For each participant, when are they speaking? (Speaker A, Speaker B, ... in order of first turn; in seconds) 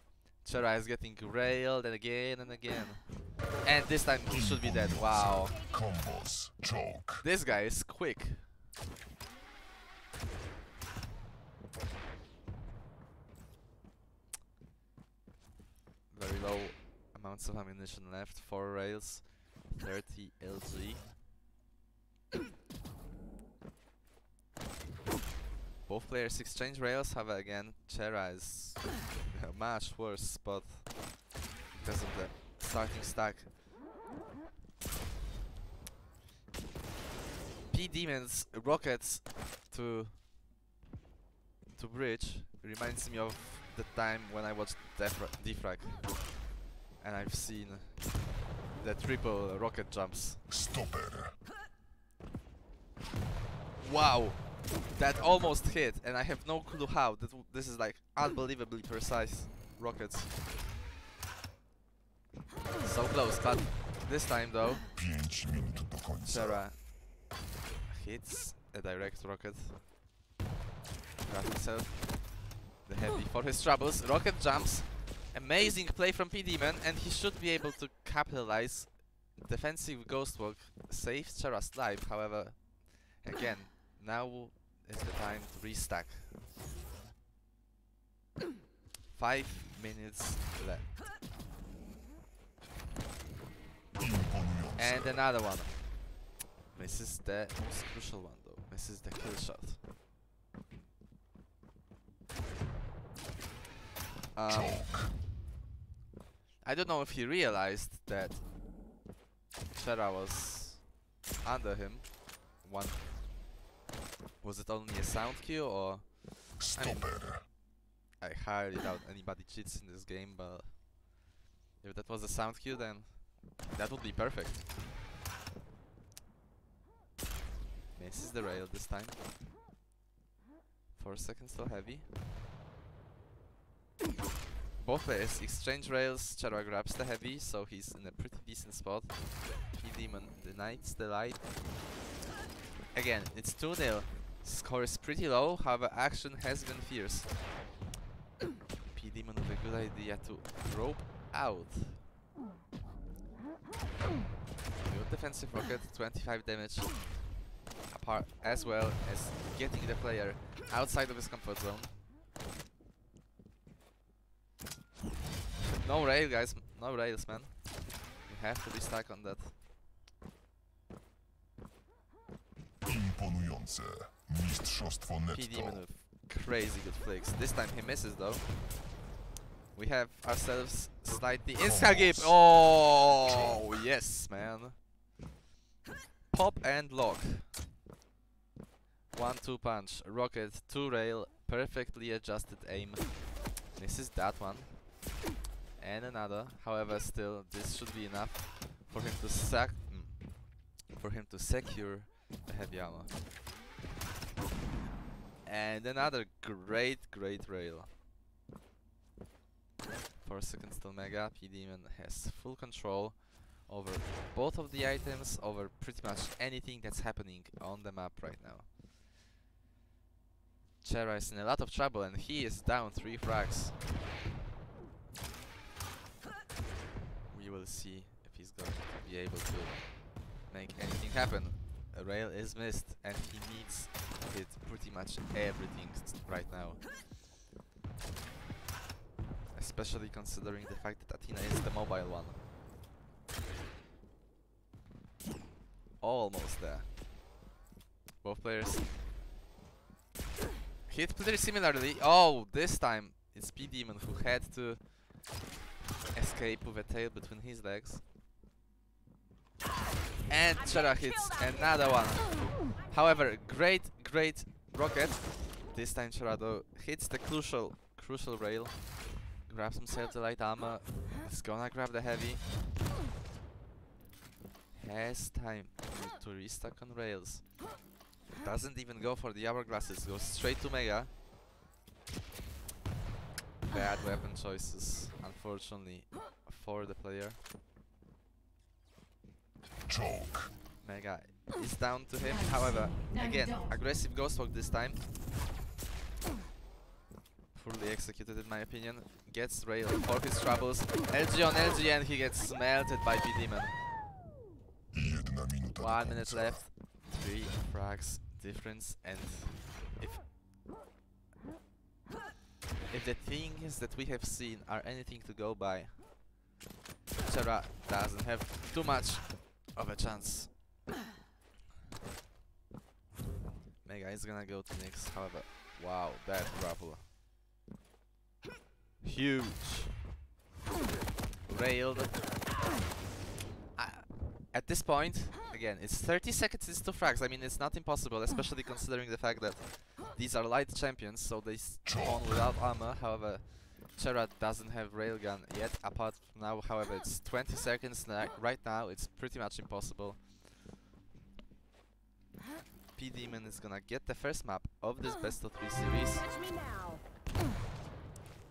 Speaker A: 0.4-5.6, 7.2-8.5, 16.1-21.0, 25.9-31.2, 31.8-33.5, 37.7-40.2, 41.7-46.4, 47.0-50.4, 53.8-60.3, 62.8-64.9, 66.2-66.8, 67.9-69.8, 71.2-86.3, 89.1-90.9, 94.8-96.0, 96.7-99.8, 104.3-104.9, 106.6-108.4, 109.7-110.9, 111.4-113.0, 114.4-117.6, 118.2-120.9, 121.8-124.6, 127.9-129.2, 130.9-132.1, 134.8-141.5, 142.9-147.3, 148.9-152.0, 154.8-157.3, 157.9-161.9, 165.6-169.6, 175.3-178.7, 179.7-184.8, 186.3-187.5, 189.1-195.1, 195.8-203.1, 205.4-207.9, 210.2-218.7, 220.8-223.8, 227.3-236.9, 239.5-242.4, 246.0-246.9, 248.2-248.8, 250.9-255.1, 256.1-258.0, 260.3-272.4, 274.7-277.6, 278.3-281.1, 283.7-287.4, 290.8-295.0, 297.5-303.8, 305.8-310.2, 312.9-316.0, 317.2-320.5, 323.8-327.0, 329.0-330.0, 331.5-332.4, 333.7-350.3, 352.9-356.3
Speaker B: 4.3-7.2, 50.5-51.3, 64.9-66.6, 94.0-95.2, 104.5-105.1, 116.6-117.5, 172.8-175.8, 181.6-183.7, 289.9-290.5, 304.9-306.6, 341.8-342.6
Speaker C: 5.5-5.8, 260.5-262.0, 356.2-357.0